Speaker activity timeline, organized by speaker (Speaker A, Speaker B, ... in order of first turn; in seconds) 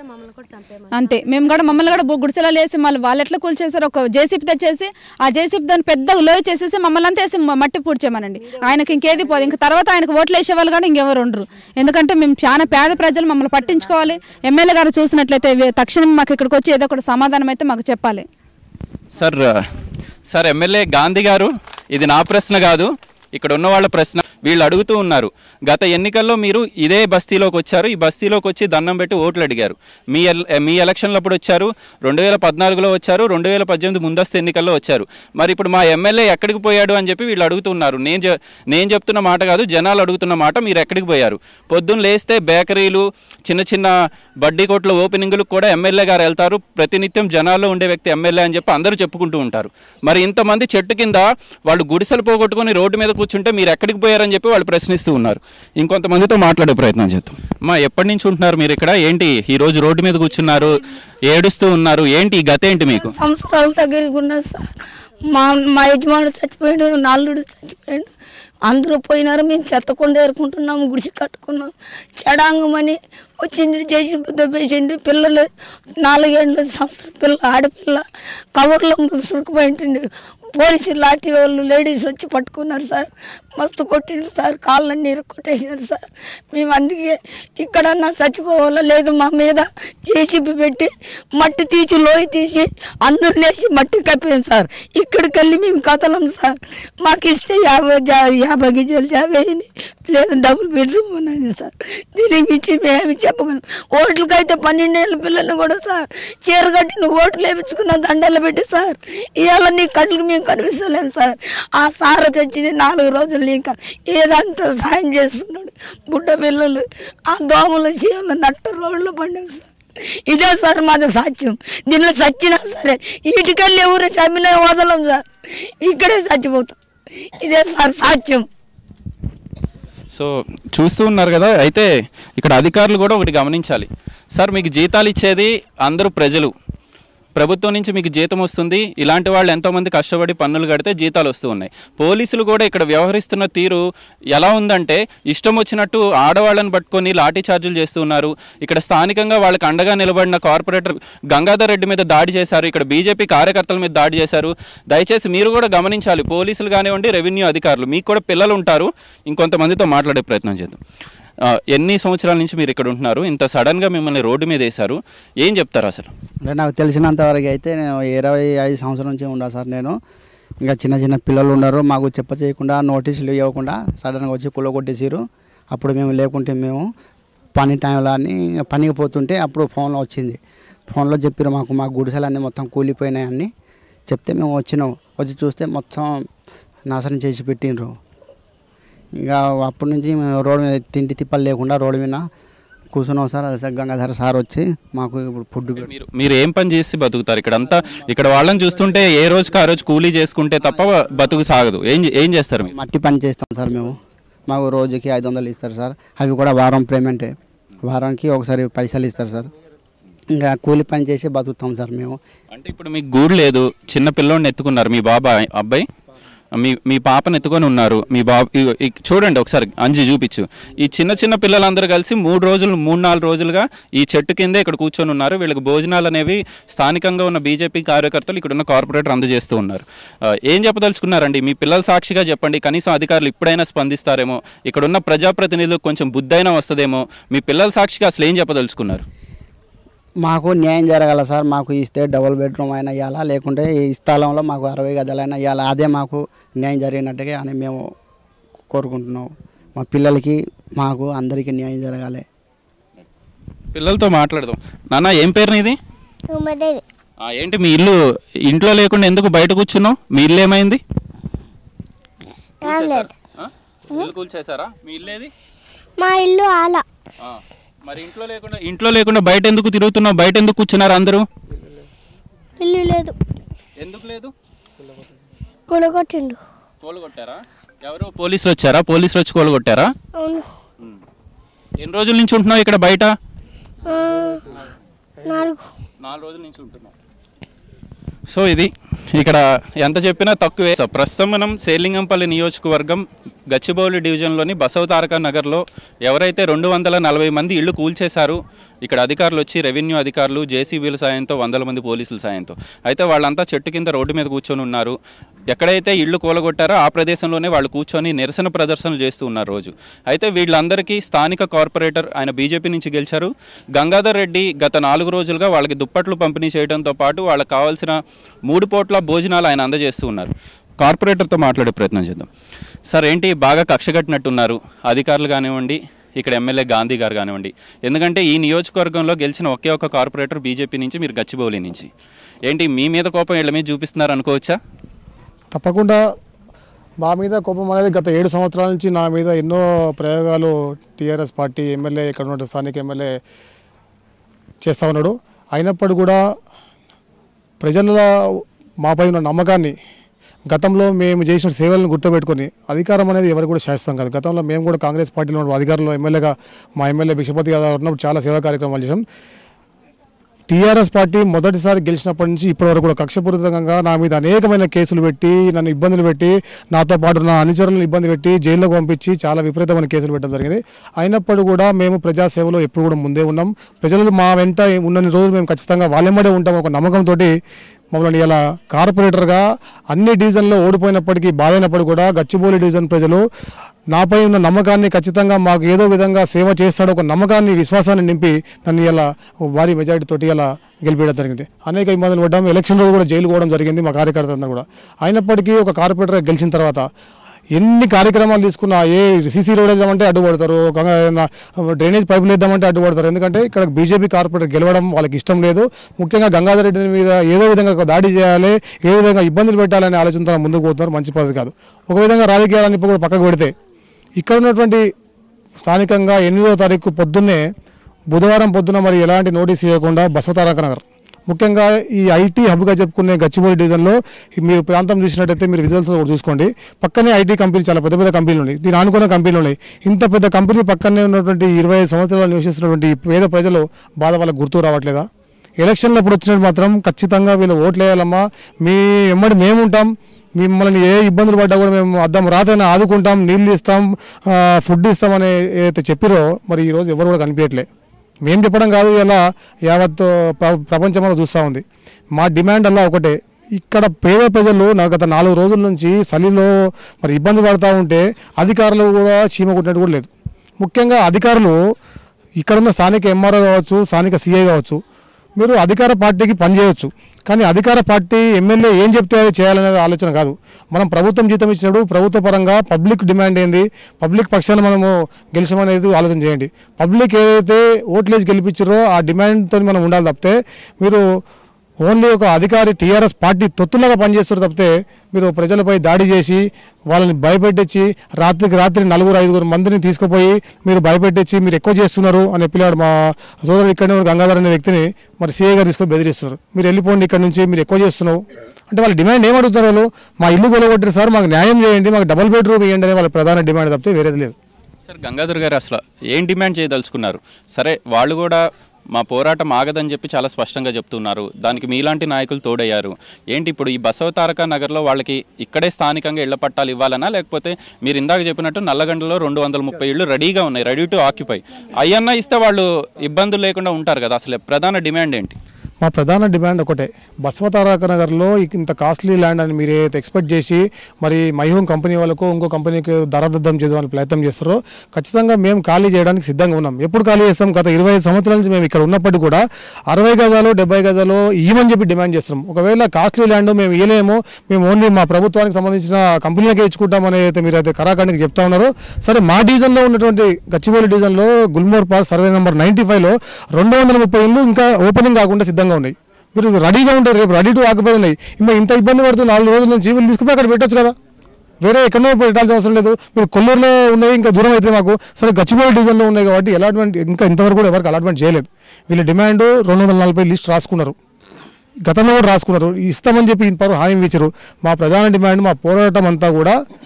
Speaker A: 0.9-18.2
Speaker B: 19.1-19.5, 20.3-63.1, 130.1-136.5, 137.4-160.8, 161.4-166.1, 195.8-202.7, 212.5-215.8, 216.6-239.1, 253.7-255.8, 257.2-257.9, 258.5-260.8, 262.6-265.3, 267.2-271.2, 273.8-274.3, 276.8-279.9, 281.8-283.1, 286.0-286.9, 288.3-305.0, 305.5-322.3, 322.9-331.9, 332.5-334.6, 504.9-525.4
Speaker C: 62.9-68.1, 68.7-75.5, 76.0-78.0, 78.5-119.7, 120.3-125.2, 125.8-126.8, 127.4-128.5
Speaker D: 166.4-170.0, 170.6-176.8, 177.6-180.4, 180.9-183.5, 184.1-186.3, 186.9-188.0, 189.2-192.2, 192.9-195.9, 202.8-204.0, 204.5-209.5, 210.3-212.2, 240.2-247.8, 248.7-252.2
Speaker E: 256.3-256.8, 262.6-263.1, 266.0-266.8, 272.6-273.1, 275.7-276.4, 280.2-280.5, 283.9-284.4, 285.2-285.7
Speaker F: 335.5-336.0, 337.0-343.2, 344.6-346.2, 347.6-349.8, 350.5-359.1, 360.5-377.3, 377.9-383.2, 383.9-396.9, 397.5-413.5, 414.2-414.9, 415.6-417.4, 418.1-435.1, 435.6-447.7, 448.2-451.6, 452.2-461.6, 462.4-464.8, 465.4-481.0, 481.8-504.4, 525.8-561.0, 561.6-571.0, 571.9-576.6